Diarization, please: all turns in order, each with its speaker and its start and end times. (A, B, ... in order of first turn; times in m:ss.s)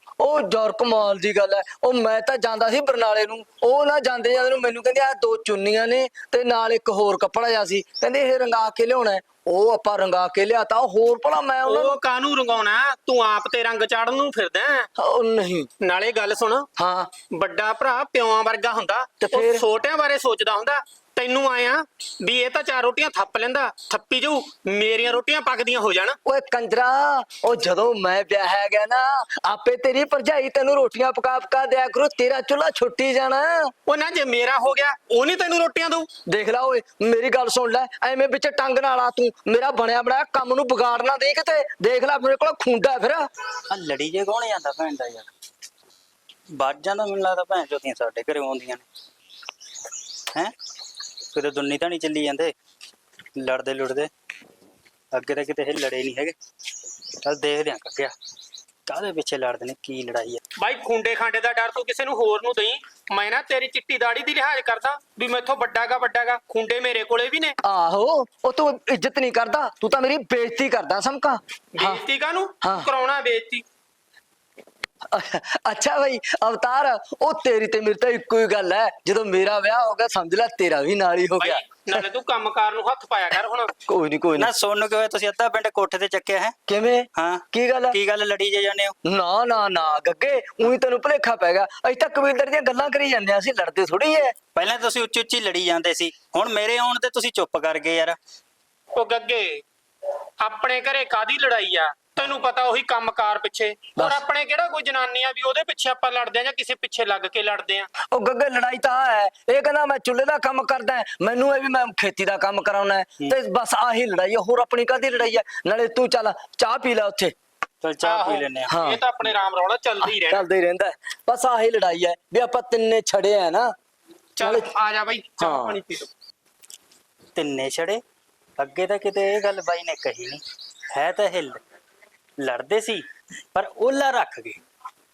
0:00.2-0:12.0 A
0:11.6-0:14.9 B
0:15.0-0:15.7 A
0:15.8-0:16.7 B
0:16.8-0:17.1 A
0:17.3-0:26.2 B
0:19.2-0:19.6 A
0:26.2-0:33.7 A
0:33.9-0:36.1 B
0:36.3-0:43.3 A
0:43.7-0:45.3 C
0:46.5-0:48.8 C
0:51.3-0:52.5 C
0:53.4-0:54.1 C
0:55.1-0:56.4 C
0:57.2-0:58.1 C
0:58.9-1:00.4 C
1:00.6-1:07.5 B
1:07.6-1:12.0 A
1:11.8-1:13.6 B
1:12.6-1:12.9 A
1:15.1-1:22.0 A
1:21.4-1:23.7 B
1:23.9-1:24.5 A
1:24.4-1:26.5 C
1:26.7-1:28.0 A
1:27.1-1:28.9 C
1:29.0-1:34.4 A
1:34.5-1:38.2 C
1:38.9-1:39.6 B
1:40.4-1:47.9 B
1:44.0-1:44.2 A
1:48.0-1:57.3 A
1:57.8-1:58.7 C
1:58.0-2:00.4 B
1:58.7-1:59.3 A
2:00.0-2:03.7 A
2:04.4-2:06.1 B
2:04.4-2:04.7 A
2:05.4-2:05.8 A
2:07.3-2:08.0 C
2:08.6-2:11.6 C
2:12.4-2:14.6 C